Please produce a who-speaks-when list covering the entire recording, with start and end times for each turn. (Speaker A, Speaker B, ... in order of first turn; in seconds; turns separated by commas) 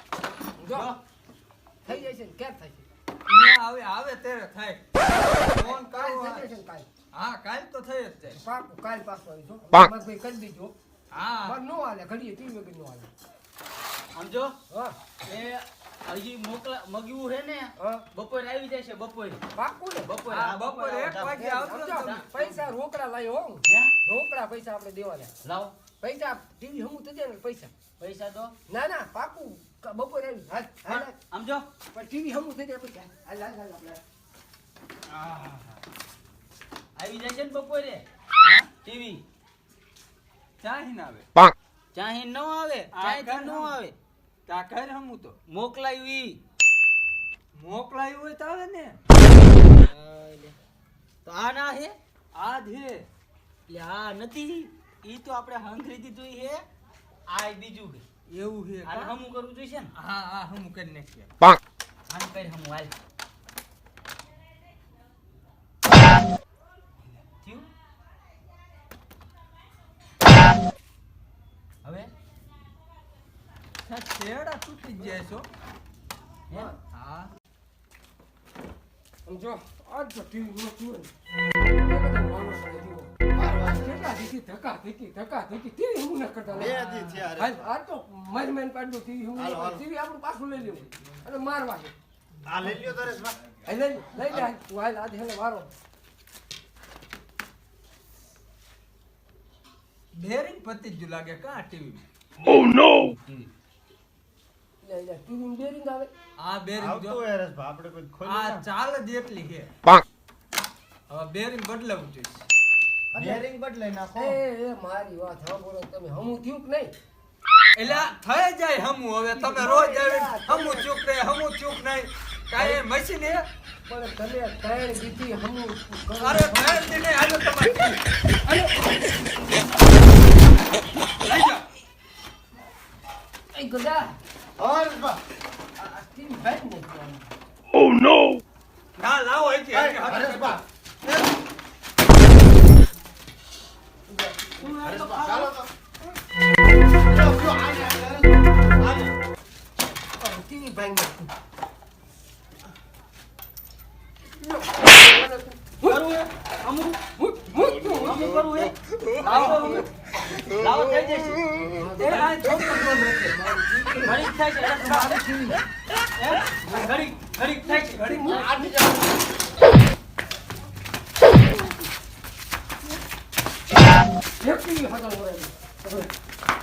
Speaker A: 0.6-0.9, Speaker B: 0.7-1.0, Speaker A: 1.8-2.9, Speaker C: 3.3-6.5, Speaker A: 5.5-6.9, Speaker C: 7.1-8.4, Speaker A: 8.3-10.8, Speaker C: 11.1-11.6, Speaker A: 11.4-13.1, Speaker B: 14.1-14.6, Speaker A: 14.7-15.0, Speaker B: 15.2-19.4, Speaker A: 17.8-18.1, Speaker A: 19.6-20.1, Speaker B: 20.0-22.6, Speaker C: 20.3-22.2, Speaker A: 21.2-25.3, Speaker B: 23.7-23.9, Speaker B: 25.4-25.8, Speaker A: 26.0-27.7, Speaker B: 28.0-28.6, Speaker A: 28.7-31.1, Speaker B: 30.9-31.7, Speaker A: 31.9-33.9, Speaker D: 33.4-33.8, Speaker B: 35.1-35.6, Speaker B: 37.0-38.0, Speaker C: 38.4-38.7, Speaker B: 38.8-39.2, Speaker C: 40.6-41.3, Speaker B: 41.9-44.0, Speaker C: 42.9-43.8, Speaker C: 44.5-45.4, Speaker B: 45.5-46.4, Speaker C: 47.5-49.0, Speaker B: 49.8-50.6, Speaker B: 51.2-52.0, Speaker C: 52.3-53.1, Speaker B: 53.7-56.6, Speaker B: 57.3-58.0, Speaker C: 58.3-59.1, Speaker B: 58.8-59.9, Speaker C: 60.0-61.3, Speaker B: 62.1-62.9, Speaker B: 67.3-67.7, Speaker B: 71.8-72.1, Speaker C: 73.8-75.5, Speaker C: 76.9-77.3, Speaker A: 79.3-83.1, Speaker D: 83.3-84.0, Speaker A: 83.6-91.9, Speaker D: 86.5-87.7, Speaker C: 86.7-87.2, Speaker D: 89.4-89.8, Speaker D: 92.5-93.5, Speaker A: 93.7-95.7, Speaker C: 100.1-102.7, Speaker B: 102.7-103.5, Speaker A: 104.8-106.1, Speaker C: 106.4-107.2, Speaker D: 106.8-108.6, Speaker C: 108.2-109.7, Speaker C: 111.1-112.5, Speaker D: 113.1-114.4, Speaker A: 113.2-113.5, Speaker A: 114.2-116.9, Speaker C: 117.8-123.5, Speaker A: 119.3-120.9, Speaker A: 123.9-126.9, Speaker C: 126.2-128.0, Speaker A: 128.5-128.7, Speaker C: 131.2-131.7, Speaker A: 133.5-134.2, Speaker D: 134.6-135.2, Speaker A: 136.0-137.2, Speaker B: 136.1-136.8, Speaker C: 139.0-140.6, Speaker D: 139.7-141.3, Speaker B: 144.5-145.6, Speaker D: 144.7-145.7, Speaker D: 147.0-149.1, Speaker A: 150.2-151.3, Speaker A: 154.3-156.0, Speaker B: 155.8-157.0, Speaker A: 157.2-158.3, Speaker B: 157.9-159.9, Speaker C: 159.2-159.8, Speaker B: 160.5-161.5, Speaker A: 161.7-162.7, Speaker C: 162.0-163.4, Speaker A: 163.3-164.2, Speaker B: 164.0-165.2, Speaker A: 164.8-165.6, Speaker B: 166.2-168.5, Speaker C: 167.8-168.4, Speaker A: 167.9-168.5, Speaker D: 168.3-169.0, Speaker A: 174.4-176.1